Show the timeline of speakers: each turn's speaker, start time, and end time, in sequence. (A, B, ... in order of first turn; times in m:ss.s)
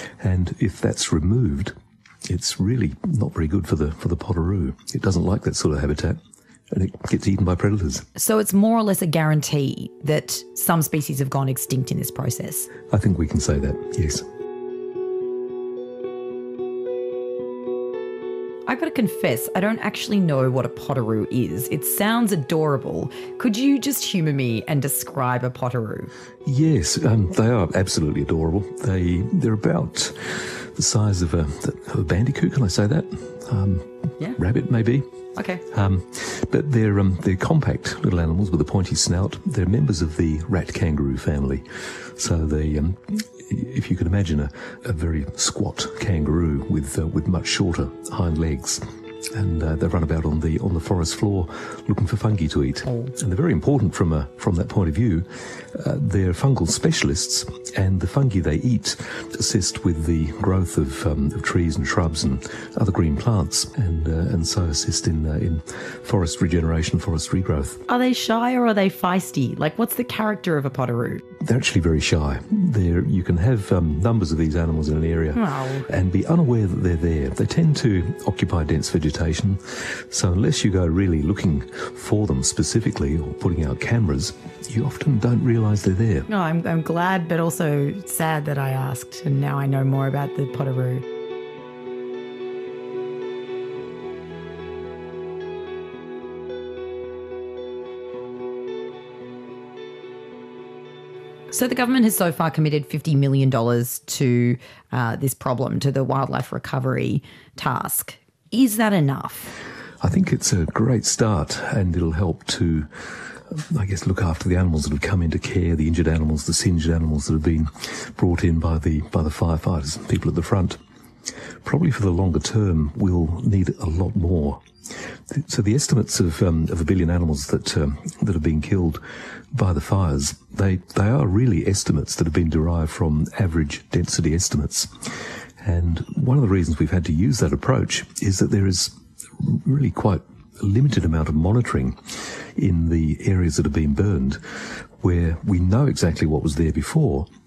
0:00.2-0:01.7 A
0:02.3-0:06.2 A
0:06.7-0:08.1 A
0:08.2-0:12.7 B
0:12.9-0:14.2 A
0:18.7-0:26.1 B
0:26.5-0:35.1 A
0:35.4-0:35.6 B
0:35.7-1:07.8 A
1:07.9-1:11.2 B
1:11.4-1:26.3 A
1:15.4-1:15.9 B
1:26.3-1:31.0 B
1:41.5-1:49.6 B
1:50.0-1:52.9 A
1:53.5-2:00.8 A
2:01.6-2:04.6 A
2:05.3-2:09.0 A
2:09.5-2:14.9 A
2:15.6-2:27.3 A